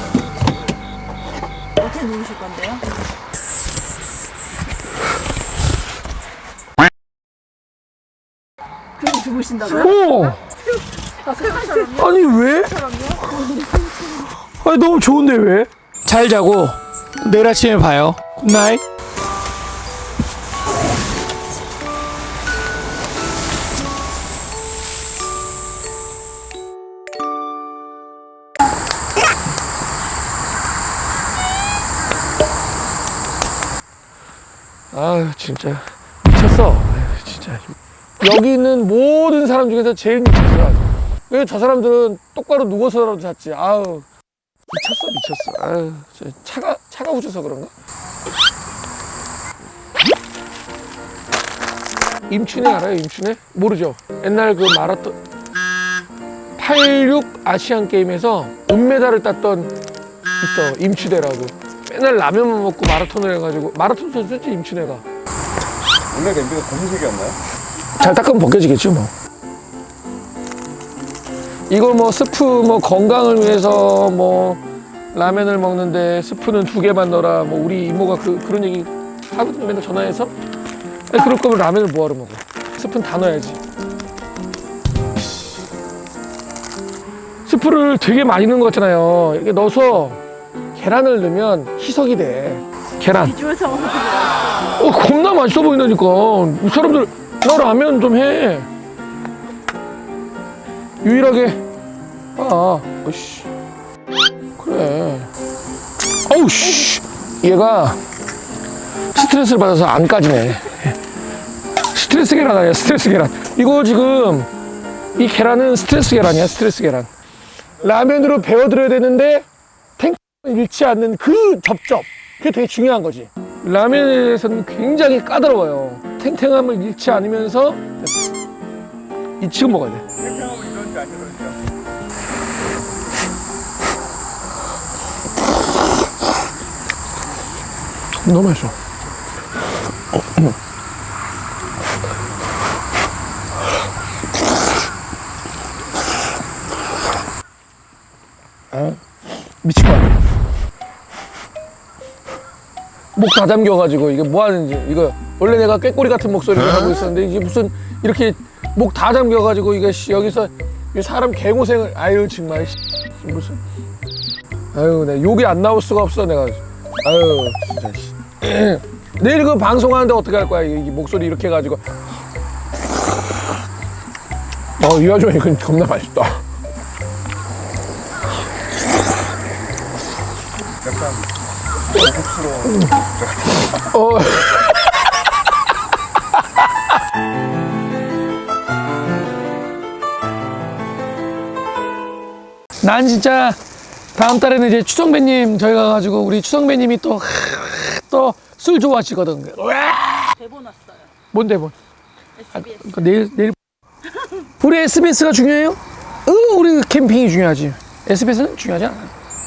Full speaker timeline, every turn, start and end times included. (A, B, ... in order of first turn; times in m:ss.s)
0:01.8-0:02.8 A
0:09.0-0:10.4 A
0:09.6-0:10.4 B
0:11.2-0:14.3 A
0:11.8-0:12.8 B
0:14.6-0:18.8 B
0:34.9-0:44.1 B
0:44.7-0:47.7 B
0:52.3-0:55.2 B
0:56.6-0:59.7 B
1:00.4-1:05.0 B
1:06.1-1:07.4 C
1:08.0-1:09.1 B
1:11.7-1:14.6 B
1:15.1-1:20.3 B
1:21.1-1:23.6 B
1:27.5-1:30.2 B
1:30.8-1:33.4 B
1:33.2-1:34.8 A
1:34.8-1:38.7 B
1:41.0-1:41.6 B
1:42.4-1:43.5 B
1:44.6-1:45.3 B
1:46.3-1:48.0 B
1:49.1-1:51.0 B
1:51.9-1:54.5 B
1:55.2-1:57.1 B
1:57.8-1:59.5 B
2:00.0-2:08.2 B
2:09.4-2:10.0 B
2:10.2-2:11.7 C
2:18.2-2:18.8 B
2:28.7-2:29.0 B
2:29.6-2:30.2 B
2:33.2-2:43.6 B
2:44.7-2:51.8 B
2:54.8-2:56.4 B
3:00.8-3:03.1 C
3:03.8-3:05.3 B
3:06.4-3:06.7 B
3:12.8-3:13.6 B
3:14.2-3:20.3 B
3:20.3-3:21.1 A
3:21.3-3:21.8 B
3:22.4-3:23.2 A
3:22.5-3:23.6 B
3:24.6-3:29.1 B